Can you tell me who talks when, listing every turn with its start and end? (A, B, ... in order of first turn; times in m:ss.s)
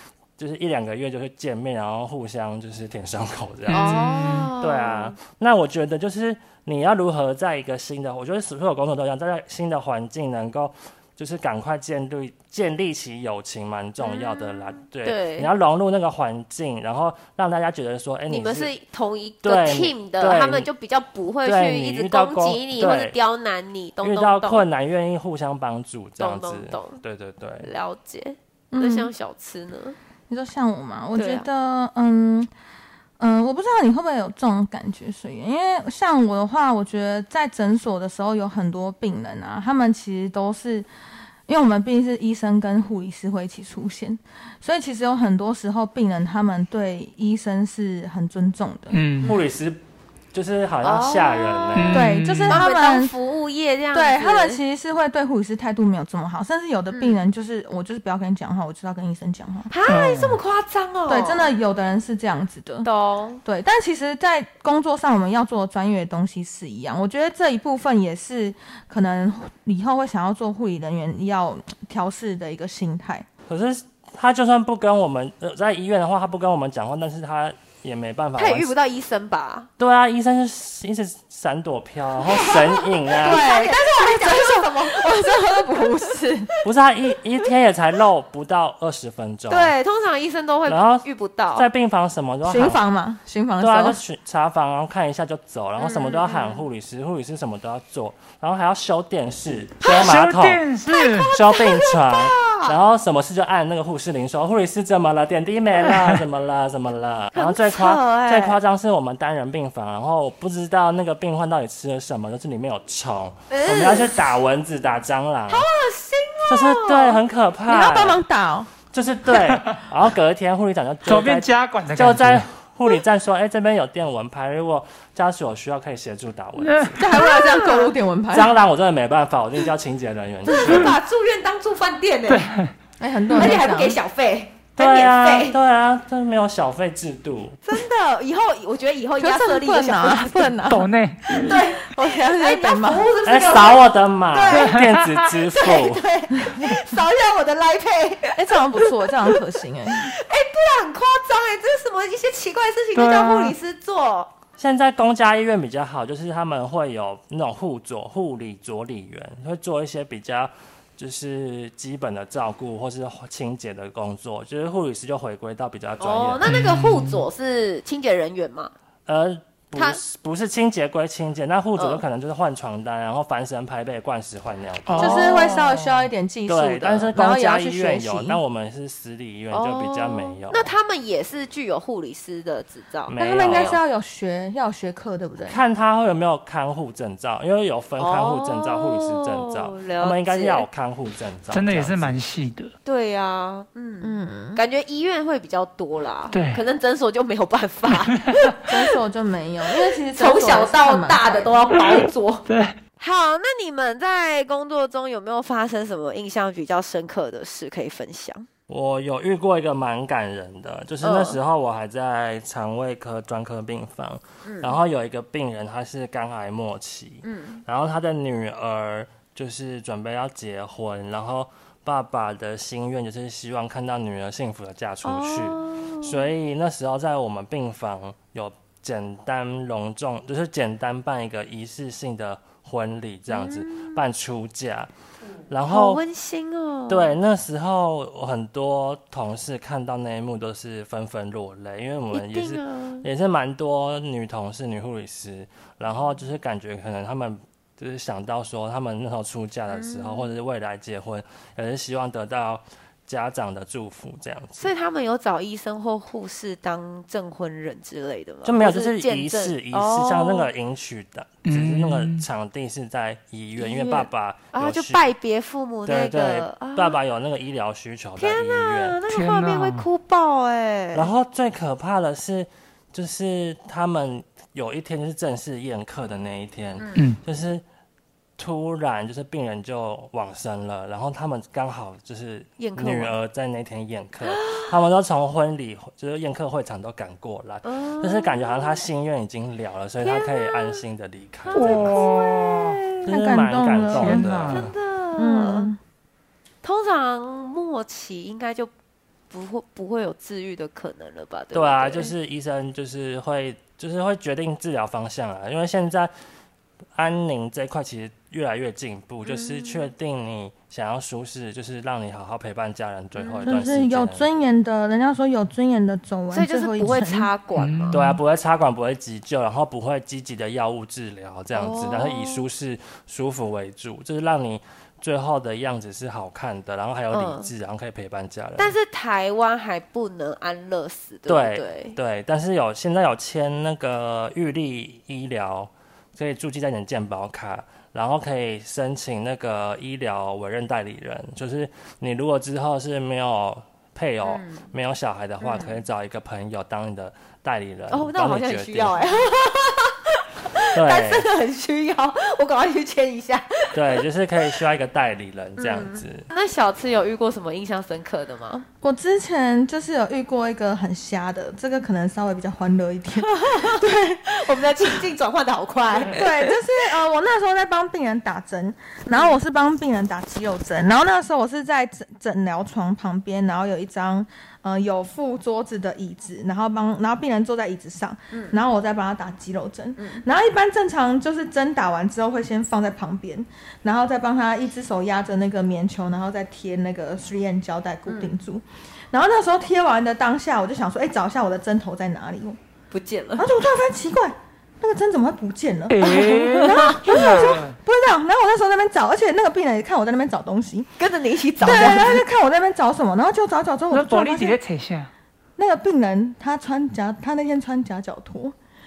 0:00.4-0:18.7 A
0:03.7-0:04.5 B
0:03.7-0:05.1 C
0:14.0-0:15.5 C
0:18.3-0:24.6 C
0:19.4-0:20.7 A
0:21.4-0:23.1 A
0:24.0-0:27.7 A
0:26.2-0:27.0 C
0:27.6-0:30.0 C
0:28.7-0:29.1 D
0:30.3-0:32.5 D
0:31.2-0:31.4 C
0:33.2-0:40.9 D
0:41.5-0:49.0 D
0:48.9-0:49.3 B
0:49.2-0:49.8 A
0:50.3-0:52.1 A
0:50.8-0:52.0 C
0:51.7-0:52.6 B
0:51.9-0:53.1 D
0:52.5-0:54.6 C
0:53.9-0:59.7 D
0:56.9-0:57.2 C
0:59.7-1:01.5 C
0:59.9-1:00.4 B
1:01.1-1:02.9 D
1:02.8-1:03.4 C
1:03.4-1:13.2 D
1:13.5-1:18.7 A
1:18.4-1:19.7 C
1:19.8-1:23.4 A
1:22.2-1:25.9 C
1:23.1-1:26.5 D
1:26.6-1:29.7 A
1:29.5-1:31.6 C
1:30.6-1:32.8 A
1:32.4-1:34.0 D
1:33.6-1:40.6 A
1:35.8-1:36.6 C
1:39.8-1:41.3 B
1:40.9-1:42.8 C
1:41.2-1:55.7 A
1:47.3-1:48.6 C
1:53.5-1:54.3 C
1:55.5-1:57.2 C
1:56.5-1:58.2 A
1:57.7-1:58.7 D
1:58.9-2:07.1 A
2:01.0-2:02.4 B
2:06.6-2:06.9 B
2:07.0-2:08.5 D
2:07.1-2:07.9 C
2:08.3-2:10.9 A
2:10.4-2:12.5 C
2:10.6-2:10.9 B
2:12.3-2:12.7 B
2:13.0-2:14.0 D
2:13.3-2:15.6 C
2:14.8-2:17.6 A
2:17.7-2:20.4 C
2:19.2-2:23.2 D
2:20.7-2:21.6 B
2:21.3-2:29.4 C
2:23.2-2:26.1 A
2:24.5-2:25.4 B
2:26.3-2:26.8 D
2:28.3-2:30.1 D
2:29.9-2:34.3 C
2:32.9-2:33.5 B
2:34.6-2:46.6 A
2:46.0-2:48.7 C
2:46.4-2:47.2 B
2:49.0-2:55.2 A
2:49.7-2:50.0 C
2:51.8-2:52.0 C
2:54.8-2:55.9 B
2:55.0-2:55.6 C
2:55.0-2:58.4 D
2:56.5-3:00.7 A
2:59.5-3:03.8 C
3:03.1-3:03.8 A
3:03.2-3:05.6 D
3:05.4-3:12.2 A
3:08.0-3:10.6 C
3:11.5-3:12.7 B
3:12.8-3:18.8 C
3:14.0-3:14.6 D
3:16.3-3:16.6 B
3:17.9-3:18.5 B
3:18.6-3:21.6 D
3:20.1-3:22.4 C
3:21.9-3:22.8 B
3:23.0-3:28.5 C
3:28.7-3:54.9 A
3:31.0-3:31.4 C
3:34.4-3:34.8 C
3:37.2-3:37.6 C
3:45.0-3:46.3 C
3:53.3-3:54.0 C
3:55.5-3:56.0 A
3:55.7-3:57.1 C
3:56.9-4:14.7 A
4:02.1-4:03.0 C
4:09.7-4:10.3 C
4:14.6-4:20.5 C
4:18.4-4:25.1 A
4:21.4-4:22.2 B
4:23.6-4:27.0 C
4:25.8-4:29.0 A
4:28.2-4:31.1 C
4:29.1-4:29.8 B
4:30.9-4:37.6 A
4:36.8-4:37.0 C
4:38.4-4:52.0 A
4:42.6-4:43.1 C
4:44.2-4:44.7 C
4:47.6-4:48.7 C
4:50.0-4:50.8 C
4:51.5-4:52.8 C
4:51.6-4:52.8 B
4:53.0-4:54.7 A
4:53.1-4:54.3 D
4:53.9-4:54.7 B
4:54.5-4:55.7 C
4:55.2-4:55.8 D
4:56.6-4:58.7 C
4:59.3-5:02.1 C
5:01.5-5:06.1 A
5:06.9-5:14.2 A
5:09.2-5:09.9 C
5:13.2-5:13.5 C
5:13.4-5:17.3 D
5:16.3-5:18.0 C
5:17.6-5:18.2 B
5:17.9-5:28.7 A
5:21.5-5:22.4 C
5:27.1-5:27.5 C
5:28.6-5:32.0 C
5:31.3-5:49.2 A
5:44.2-5:44.7 C
5:45.4-5:45.8 C
5:47.9-5:54.0 C
5:50.7-5:51.3 A
5:53.7-5:56.3 A
5:55.6-5:58.6 C
5:58.8-6:04.3 D
6:03.2-6:06.5 C
6:06.1-6:32.6 D
6:09.1-6:09.4 C
6:18.3-6:18.6 C
6:32.9-6:33.5 C
6:33.4-6:40.9 D
6:35.9-6:37.8 B
6:36.0-6:37.0 C
6:41.0-6:42.2 C
6:41.6-6:44.6 D
6:41.6-6:42.2 B
6:43.9-6:45.1 B
6:45.6-6:48.5 D